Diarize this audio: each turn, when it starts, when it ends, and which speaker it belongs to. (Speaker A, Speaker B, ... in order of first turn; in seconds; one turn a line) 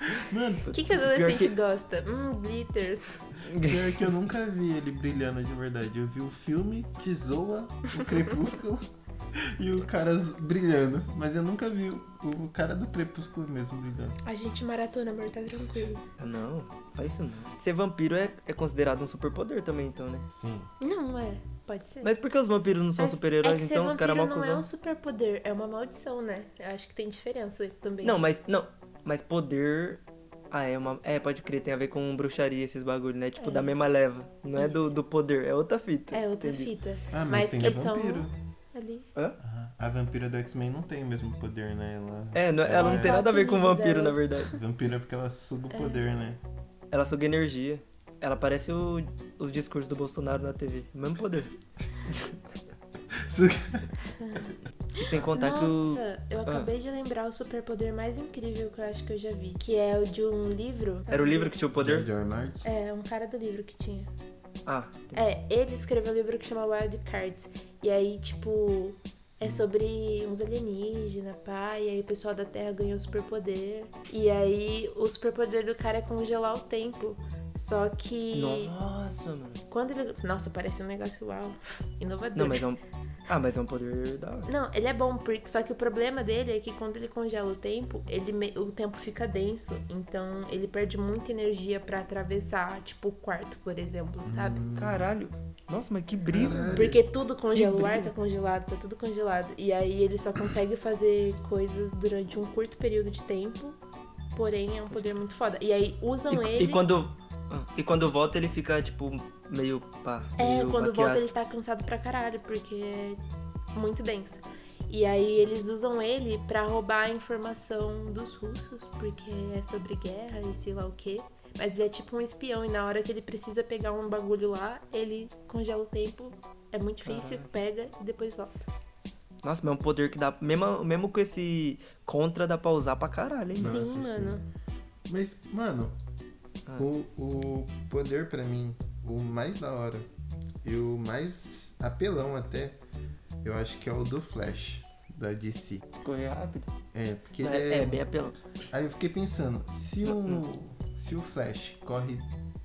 Speaker A: 0.1-0.7
Speaker B: 0.7-1.5
Speaker C: 0.7-3.1
Speaker B: 3.4-3.9
Speaker A: 3.6-14.2
Speaker C: 14.3-16.0
Speaker B: 16.2-20.3
Speaker A: 20.3-20.7
Speaker C: 20.8-22.1
Speaker B: 22.0-24.6
Speaker C: 23.0-28.2
Speaker B: 28.0-36.7
Speaker C: 33.4-33.7
Speaker C: 34.6-34.9
Speaker C: 36.1-39.1
Speaker A: 37.1-38.3
Speaker A: 39.4-43.2
Speaker B: 42.3-44.5
Speaker C: 42.8-44.3
Speaker A: 44.5-46.4
Speaker C: 45.7-46.0
Speaker B: 46.9-51.5
Speaker B: 52.1-52.4
Speaker A: 53.1-53.9
Speaker C: 55.0-61.5
Speaker B: 55.0-56.7
Speaker B: 61.1-62.1
Speaker A: 61.8-62.6
Speaker C: 62.6-64.1
Speaker B: 64.7-65.2
Speaker C: 65.1-78.7
Speaker B: 78.3-79.6
Speaker C: 79.7-82.6
Speaker B: 82.3-84.5
Speaker C: 84.5-94.6
Speaker A: 94.2-95.1
Speaker B: 94.8-96.9
Speaker A: 96.3-97.0
Speaker C: 96.7-103.8
Speaker B: 97.5-98.1
Speaker C: 104.3-106.8
Speaker B: 106.3-111.2
Speaker C: 110.4-113.2
Speaker C: 113.7-128.7
Speaker B: 127.0-127.5
Speaker B: 129.4-133.8
Speaker A: 133.6-134.4
Speaker C: 133.6-134.4
Speaker A: 135.1-136.0
Speaker A: 136.8-140.1
Speaker A: 140.6-142.8
Speaker A: 143.4-145.8
Speaker B: 146.0-146.7
Speaker A: 146.9-148.1
Speaker B: 147.4-148.4
Speaker A: 148.7-152.3
Speaker B: 150.1-150.4